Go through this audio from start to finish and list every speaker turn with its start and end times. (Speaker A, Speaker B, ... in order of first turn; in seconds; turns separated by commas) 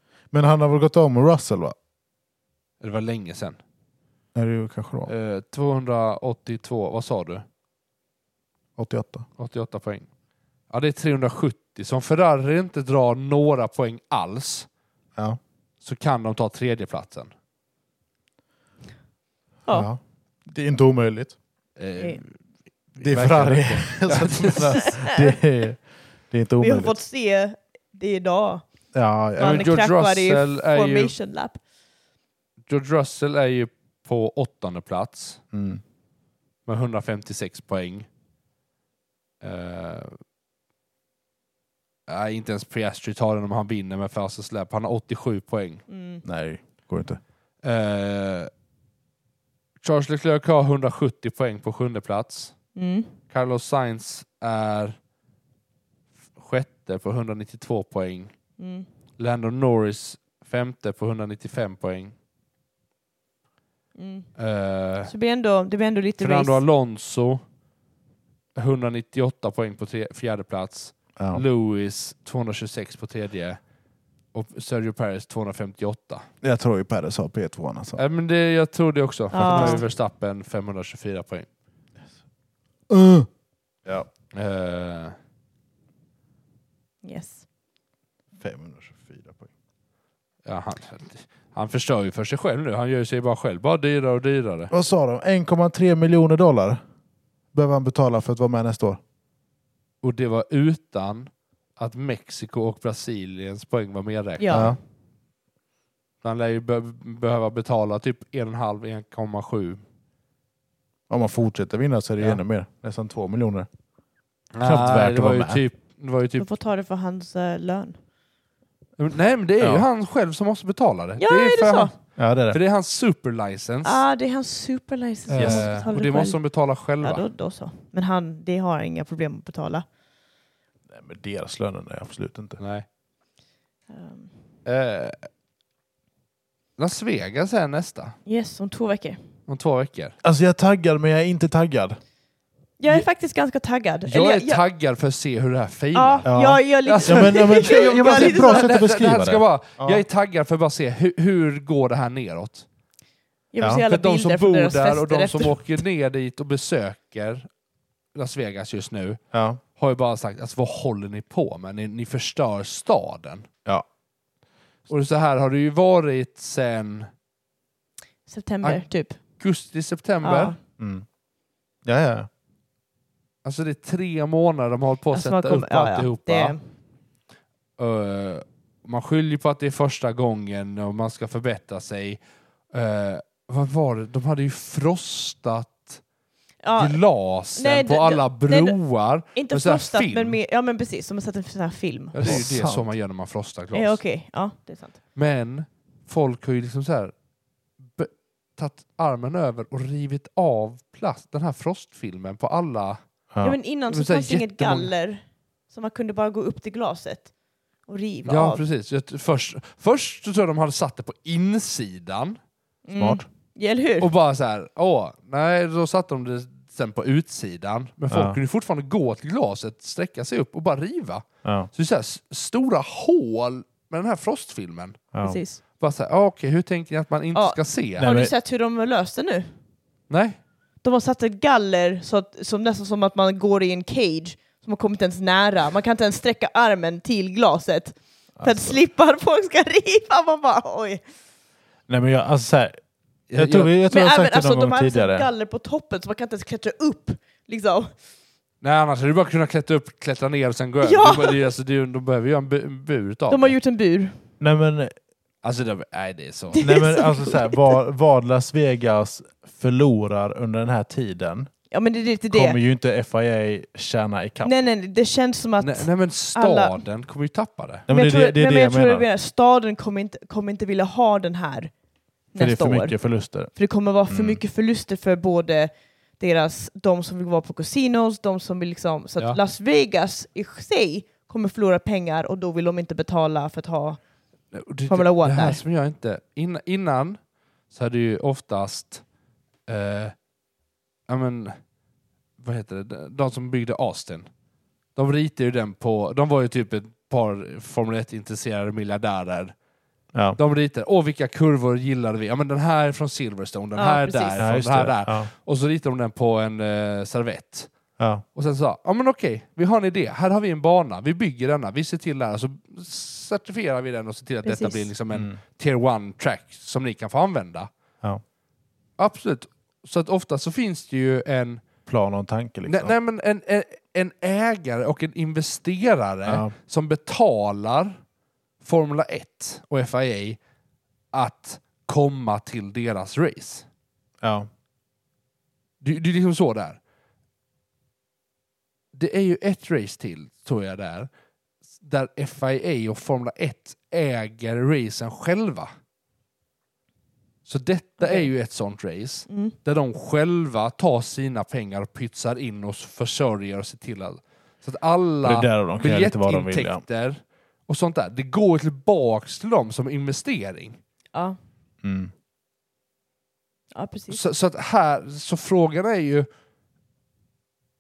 Speaker A: 0.3-1.8, Speaker B: 2.8-3.6, Speaker A: 4.3-5.1, Speaker B: 5.1-7.5, Speaker A: 8.8-9.3, Speaker B: 9.4-10.1, Speaker B: 10.7-14.7, Speaker B: 15.8-17.3, Speaker A: 19.7-21.4, Speaker B: 21.8-22.4, Speaker B: 22.9-24.9, Speaker A: 23.0-27.0, Speaker C: 24.7-25.3, Speaker C: 26.6-28.6, Speaker A: 28.9-29.7, Speaker C: 29.4-31.6, Speaker B: 29.4-31.1, Speaker B: 32.7-35.4, Speaker A: 35.5-35.8, Speaker B: 36.7-38.1, Speaker B: 39.4-40.2, Speaker B: 42.1-45.8, Speaker C: 45.9-46.2, Speaker A: 46.2-47.2, Speaker B: 47.6-48.5, Speaker B: 49.8-52.6, Speaker C: 52.8-53.1, Speaker B: 53.3-55.0, Speaker B: 56.4-58.3, Speaker C: 58.6-58.9, Speaker B: 59.2-62.1, Speaker C: 64.0-64.3, Speaker B: 64.4-65.1, Speaker C: 65.1-66.6, Speaker B: 66.2-67.4, Speaker B: 68.6-73.6, Speaker A: 71.2-71.4, Speaker B: 74.3-76.3, Speaker A: 76.4-78.0, Speaker B: 78.0-81.5, Speaker C: 79.3-79.8, Speaker A: 79.5-79.8, Speaker A: 82.9-83.3, Speaker B: 84.3-85.2, Speaker C: 87.0-87.4, Speaker A: 88.4-89.5, Speaker B: 90.5-94.7, Speaker A: 94.7-96.8, Speaker A: 97.5-99.0, Speaker B: 100.0-104.7, Speaker C: 104.4-104.8, Speaker A: 104.5-104.8, Speaker B: 106.2-109.8, Speaker A: 111.1-113.7, Speaker B: 114.5-116.5, Speaker A: 114.6-115.6, Speaker C: 116.4-118.0, Speaker B: 119.0-124.0, Speaker A: 119.6-119.9, Speaker C: 121.2-121.9, Speaker A: 122.2-122.6, Speaker C: 123.8-126.4, Speaker B: 125.3-127.2, Speaker A: 125.3-125.7, Speaker C: 127.0-129.8, Speaker A: 130.9-132.6, Speaker B: 132.6-132.9, Speaker C: 133.9-134.3, Speaker B: 134.7-135.3, Speaker B: 136.8-138.2, Speaker C: 138.2-139.2, Speaker B: 139.5-140.2, Speaker A: 140.2-142.0, Speaker C: 142.8-144.6, Speaker B: 144.1-146.3, Speaker C: 145.9-148.9, Speaker A: 146.3-150.0, Speaker B: 146.8-152.7, Speaker C: 153.5-155.8, Speaker B: 153.9-157.5, Speaker B: 158.2-159.2, Speaker A: 159.3-159.6, Speaker B: 159.8-163.5, Speaker B: 164.9-167.1, Speaker C: 168.3-169.2, Speaker B: 168.6-170.6, Speaker C: 170.2-170.6, Speaker A: 170.8-171.1, Speaker A: 171.8-172.3, Speaker B: 173.4-176.6, Speaker C: 175.1-176.6, Speaker B: 177.8-182.2, Speaker B: 182.7-186.0, Speaker C: 186.6-187.0, Speaker B: 186.8-190.4, Speaker C: 187.6-188.8, Speaker C: 189.3-192.5, Speaker B: 192.1-194.0, Speaker A: 192.2-192.9, Speaker C: 193.7-194.9, Speaker B: 195.2-197.2, Speaker B: 197.9-203.0, Speaker C: 203.4-207.3, Speaker B: 203.9-204.9, Speaker C: 207.9-208.6, Speaker B: 208.3-212.4, Speaker C: 212.9-214.1, Speaker A: 213.0-213.2, Speaker B: 214.0-225.1, Speaker A: 218.1-218.4, Speaker A: 221.4-221.7, Speaker A: 225.1-225.4, Speaker C: 225.2-225.6, Speaker B: 225.8-228.1, Speaker C: 227.3-229.5, Speaker A: 228.0-228.3, Speaker B: 230.1-230.4, Speaker C: 230.8-241.0, Speaker A: 238.4-238.8, Speaker A: 241.9-242.8, Speaker B: 243.3-243.7, Speaker A: 243.3-245.3, Speaker C: 243.9-247.9, Speaker B: 248.6-253.6, Speaker C: 250.8-251.5, Speaker C: 253.3-254.2, Speaker A: 254.4-254.9, Speaker B: 255.4-256.6, Speaker C: 256.5-257.7, Speaker A: 256.6-261.5, Speaker C: 261.7-262.6, Speaker A: 262.3-264.5, Speaker C: 264.4-266.8, Speaker B: 265.6-267.9, Speaker A: 267.9-269.1, Speaker C: 267.9-271.7, Speaker C: 272.3-273.0, Speaker A: 272.4-273.5, Speaker C: 273.5-284.0, Speaker A: 274.1-274.4, Speaker B: 284.5-287.2, Speaker C: 284.9-285.6, Speaker B: 287.7-289.0, Speaker B: 289.7-290.2, Speaker B: 291.1-291.6, Speaker B: 292.4-294.3, Speaker B: 295.0-299.5, Speaker B: 300.4-307.7, Speaker C: 303.8-304.4, Speaker A: 304.4-305.3, Speaker A: 308.0-308.2, Speaker B: 308.4-317.7, Speaker C: 314.4-314.9, Speaker A: 315.1-315.4, Speaker B: 319.0-321.6, Speaker A: 321.9-322.9, Speaker B: 322.7-328.0, Speaker A: 326.3-326.5, Speaker B: 328.6-330.4, Speaker B: 331.1-333.7, Speaker A: 334.2-334.5, Speaker B: 335.8-336.8, Speaker B: 338.9-341.1, Speaker B: 341.8-345.7, Speaker B: 347.4-360.8, Speaker C: 348.0-348.3, Speaker C: 349.3-349.5, Speaker A: 355.2-356.8, Speaker A: 361.8-362.1, Speaker C: 363.7-364.2, Speaker B: 364.1-366.3